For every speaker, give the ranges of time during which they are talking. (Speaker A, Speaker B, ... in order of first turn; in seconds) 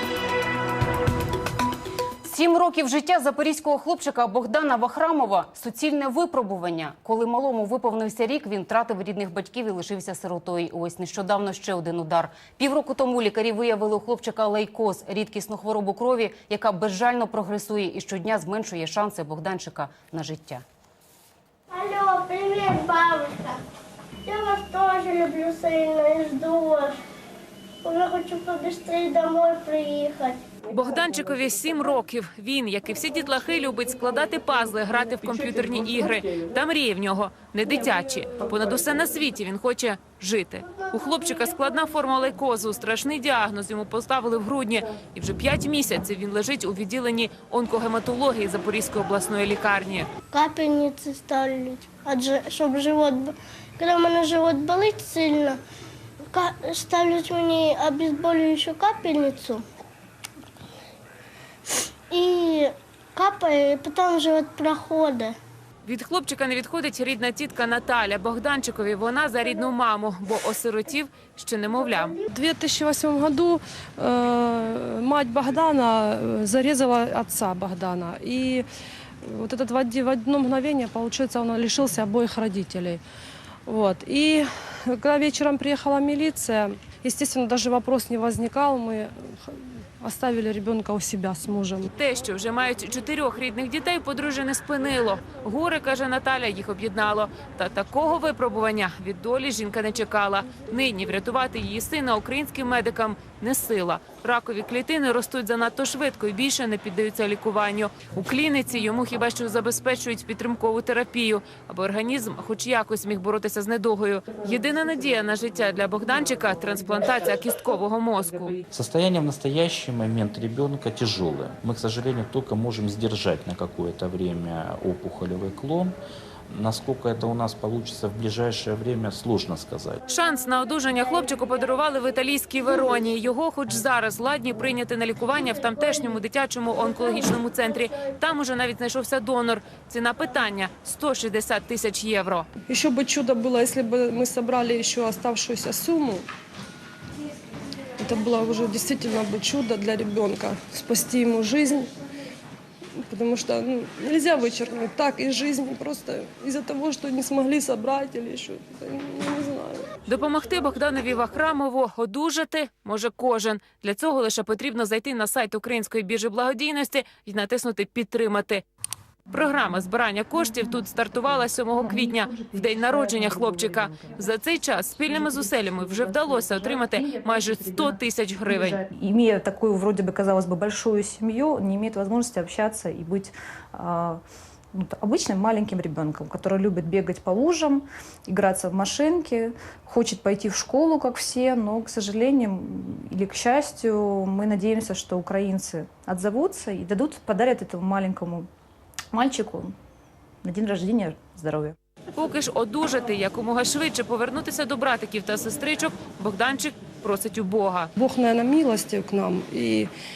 Speaker A: 2.2-20.6
Speaker B: 21.7-23.6, 24.2-26.9, 27.8-30.4, 40.7-42.0, 50.3-55.6, 56.3-59.6, 62.1-65.3, 71.8-72.2
Speaker C: 30.7-50.1, 65.9-72.2, 92.0-118.6, 130.1-142.5, 160.1-168.6, 169.3-178.9, 202.2-207.9
Speaker D: 72.3-78.7, 79.2-83.0, 83.7-91.9, 142.7-146.3, 148.0-151.9, 153.1-159.9, 208.0-209.9
Speaker E: 118.7-126.0, 126.5-130.0
Speaker F: 171.8-174.2, 175.1-184.2, 184.7-198.5, 199.1-199.8, 200.4-201.8